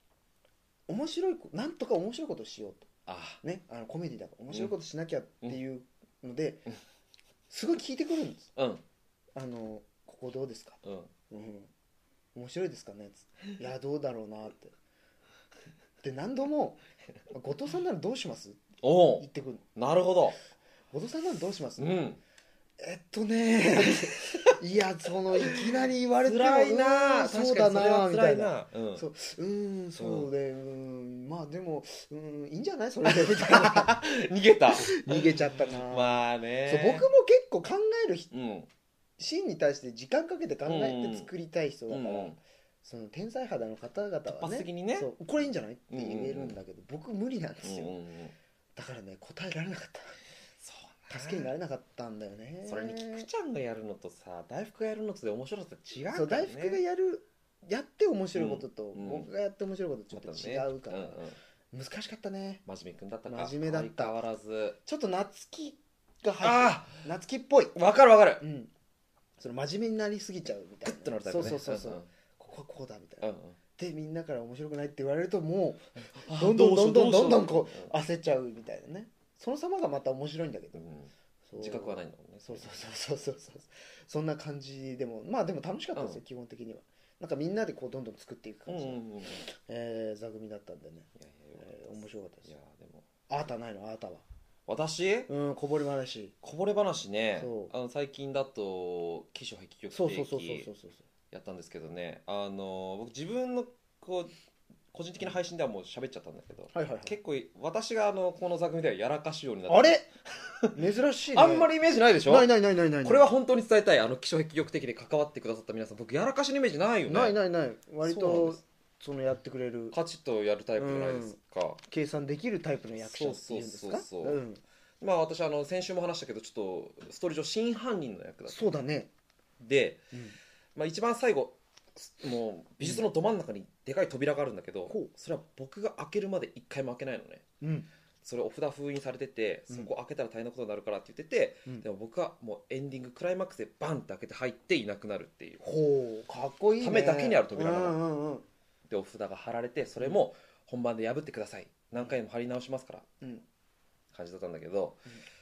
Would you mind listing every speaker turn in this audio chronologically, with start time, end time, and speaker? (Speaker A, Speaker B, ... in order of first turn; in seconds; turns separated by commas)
Speaker A: 0.9-2.9, Speaker B: 3.1-3.4, Speaker A: 3.4-6.6, Speaker A: 7.5-8.5, Speaker B: 8.6-8.8, Speaker A: 9.3-10.8, Speaker B: 10.8-11.1, Speaker A: 11.3-11.7, Speaker A: 12.3-14.7, Speaker A: 16.0-16.8, Speaker A: 17.3-18.6, Speaker B: 18.8-20.4, Speaker A: 19.2-19.6, Speaker A: 20.9-21.9, Speaker B: 21.8-22.2, Speaker A: 22.8-34.0, Speaker B: 23.8-24.5, Speaker B: 25.4-25.6, Speaker B: 26.2-29.0, Speaker B: 30.0-30.3, Speaker B: 33.0-37.1, Speaker A: 34.7-38.3, Speaker B: 38.3-38.7, Speaker A: 39.2-47.9, Speaker B: 40.6-41.3, Speaker B: 41.9-42.4, Speaker B: 44.2-45.1, Speaker B: 45.9-46.6, Speaker B: 47.6-48.3, Speaker A: 48.7-50.1, Speaker B: 50.6-51.5, Speaker A: 51.1-53.3, Speaker B: 52.6-56.8, Speaker A: 56.1-61.2, Speaker B: 58.3-59.3, Speaker B: 60.1-61.4, Speaker A: 61.7-62.6, Speaker B: 62.6-64.8, Speaker A: 63.3-64.1, Speaker A: 64.8-67.7, Speaker B: 66.4-67.0, Speaker B: 67.7-68.4, Speaker A: 68.4-68.7, Speaker A: 69.4-80.8, Speaker B: 70.8-72.1, Speaker B: 73.2-73.6, Speaker B: 76.0-77.9, Speaker B: 80.7-82.7, Speaker A: 81.5-92.5, Speaker B: 85.9-86.2, Speaker B: 88.7-89.4, Speaker B: 91.2-93.1, Speaker A: 93.3-94.2, Speaker B: 94.7-95.3, Speaker A: 95.3-96.3, Speaker B: 96.4-100.7, Speaker A: 97.4-97.7, Speaker A: 99.9-101.0, Speaker B: 101.3-104.3, Speaker B: 104.9-110.8, Speaker A: 106.7-107.1, Speaker A: 109.7-110.0, Speaker A: 110.7-111.7, Speaker B: 111.3-112.5, Speaker A: 112.2-113.3, Speaker B: 113.0-117.4, Speaker A: 117.1-119.9, Speaker B: 118.0-118.6, Speaker B: 119.9-121.8, Speaker A: 120.8-121.3, Speaker A: 121.9-124.6, Speaker B: 123.0-124.4, Speaker B: 125.0-128.7, Speaker A: 128.5-129.1, Speaker B: 129.6-130.0, Speaker B: 130.7-131.6, Speaker B: 132.1-137.4, Speaker A: 137.6-137.9, Speaker B: 138.2-145.6, Speaker A: 145.6-148.4, Speaker B: 146.8-148.0, Speaker B: 148.9-153.1, Speaker B: 154.1-155.0